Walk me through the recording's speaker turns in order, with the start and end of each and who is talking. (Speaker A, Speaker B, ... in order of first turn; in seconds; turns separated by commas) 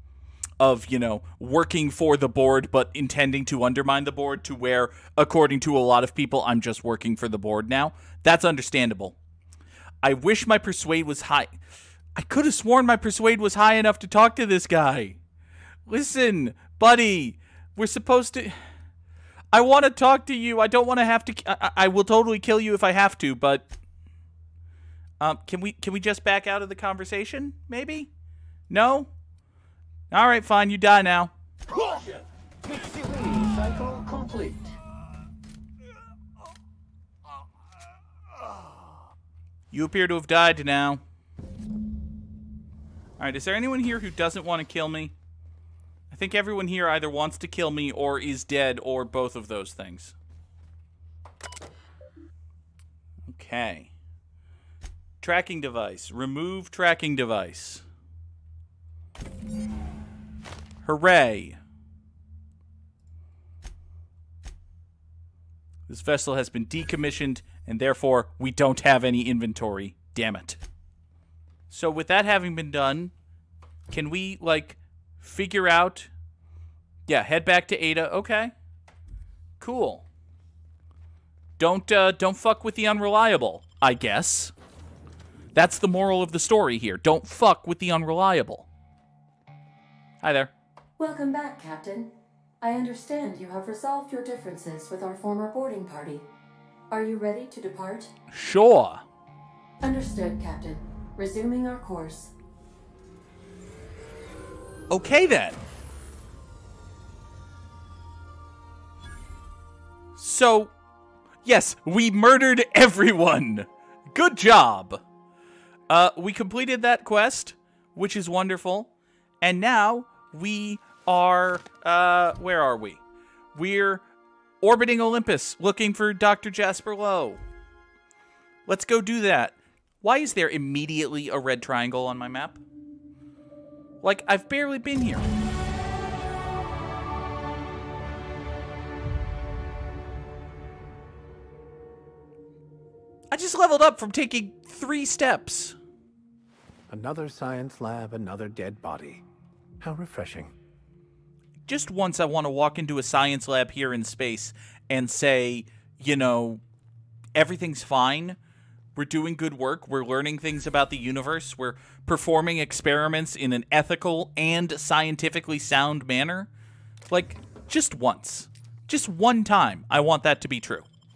Speaker A: 0.6-9.2, Speaker A: 10.0-11.6, Speaker A: 12.2-15.2, Speaker A: 15.9-18.6, Speaker A: 19.5-23.7, Speaker A: 25.2-28.1, Speaker A: 28.7-29.1, Speaker A: 30.1-31.3, Speaker B: 31.7-34.8, Speaker A: 39.7-41.0, Speaker A: 43.2-45.1, Speaker A: 46.1-50.1, Speaker A: 53.3-53.9, Speaker A: 55.2-57.9, Speaker A: 60.8-61.6, Speaker A: 65.9-70.6, Speaker A: 71.7-73.1, Speaker A: 73.9-76.1, Speaker A: 77.1-78.5, Speaker A: 79.6-80.1, Speaker A: 81.6-84.5, Speaker A: 85.5-88.7, Speaker A: 90.2-90.5, Speaker C: 91.0-96.3, Speaker C: 96.9-98.1, Speaker A: 98.3-99.0, Speaker C: 99.8-102.3, Speaker A: 104.9-105.6, Speaker A: 110.2-110.7, Speaker A: 111.5-115.0, Speaker A: 115.9-123.0, Speaker A: 123.5-124.0, Speaker A: 124.6-127.4, Speaker A: 128.7-132.6, Speaker A: 134.0-135.3, Speaker A: 143.3-145.8, Speaker D: 146.9-149.2, Speaker D: 149.8-150.5, Speaker A: 151.7-156.6, Speaker A: 157.3-158.4, Speaker A: 158.9-166.5, Speaker A: 167.1-170.9